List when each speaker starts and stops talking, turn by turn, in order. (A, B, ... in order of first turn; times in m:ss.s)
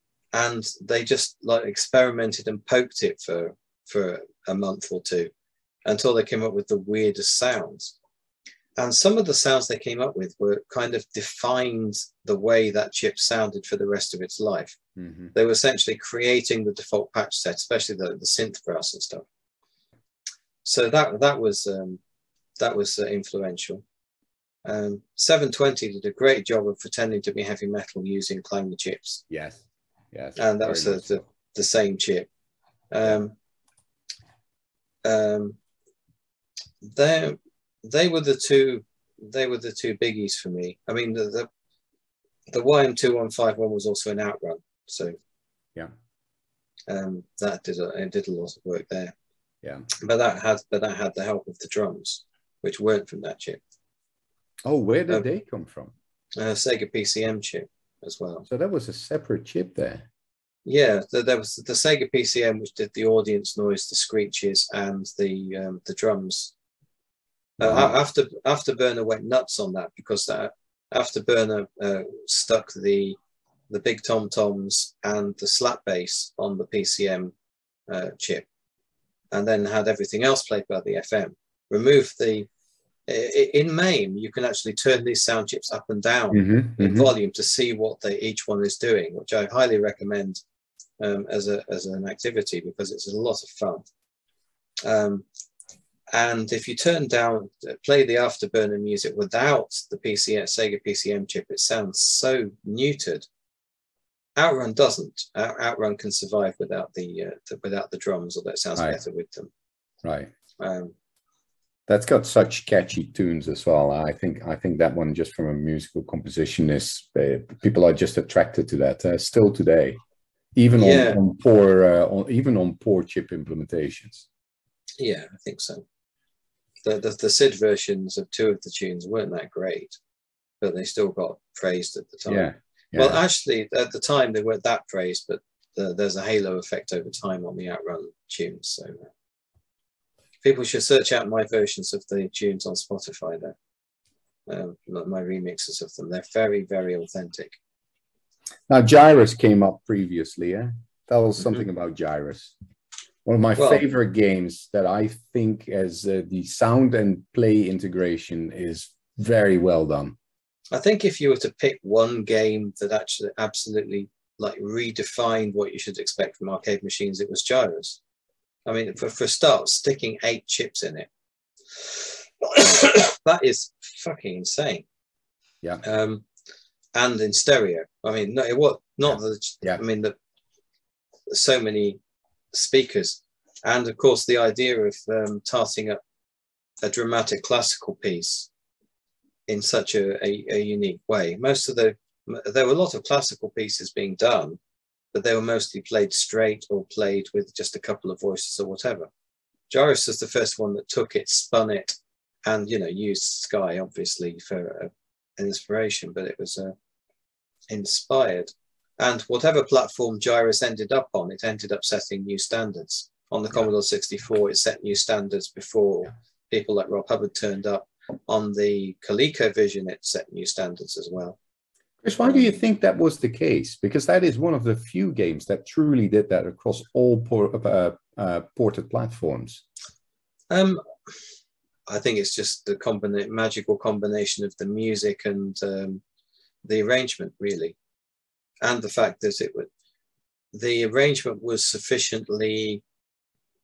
0:00.3-0:05.3 A
0:05.8-0:07.9 A
0:08.8-0:14.8 A
0:15.0-0:15.3 B
0:15.3-0:19.2 A
0:20.6-0:22.0 A
0:22.6-0:23.8 A
0:24.6-0:29.2 A
0:29.3-0:31.2 B
0:30.4-0:32.3 A
0:32.9-0:33.3 A
0:35.0-0:35.6 A
0:36.8-0:41.5 A
0:42.5-0:45.2 A
0:46.9-0:49.1 A
0:49.9-0:53.6 A
0:54.6-0:55.9 B
0:56.4-0:58.4 A
0:58.5-1:00.1 B
1:00.6-1:06.5 A
1:07.6-1:13.2 A
1:07.6-1:07.9 B
1:13.7-1:17.3 A
1:17.9-1:18.4 A
1:19.3-1:22.5 A
1:23.1-1:30.4 A
1:26.3-1:27.1 B
1:31.0-1:33.8 A
1:34.8-1:35.2 A
1:36.1-1:43.2 A
1:44.4-1:49.5 A
1:50.0-1:50.3 B
1:50.6-1:50.9 A
1:51.9-2:00.0 B
2:00.5-2:04.2 B
2:00.7-2:01.2 A
2:05.0-2:05.8 A
2:06.8-2:10.0 A
2:10.6-2:19.1 A
2:12.3-2:13.2 B
2:20.4-2:23.5 A
2:24.5-2:27.6 A
2:28.7-2:32.5 B
2:33.2-2:40.2 B
2:33.6-2:33.8 A
2:40.7-2:48.0 A
2:48.6-2:51.1 A
2:51.7-2:54.8 A
2:55.8-2:56.2 A
2:56.9-3:00.2 A
3:01.3-3:02.0 A
3:02.5-3:06.0 A
3:06.8-3:08.5 A
3:09.5-3:14.6 A
3:15.1-3:19.1 A
3:19.7-3:26.7 A
3:27.7-3:41.4 A
3:42.0-3:49.6 B
3:50.5-3:50.8 A
3:51.9-3:56.0 A
3:56.6-3:57.8 A
3:58.6-3:59.7 A
4:00.5-4:02.8 A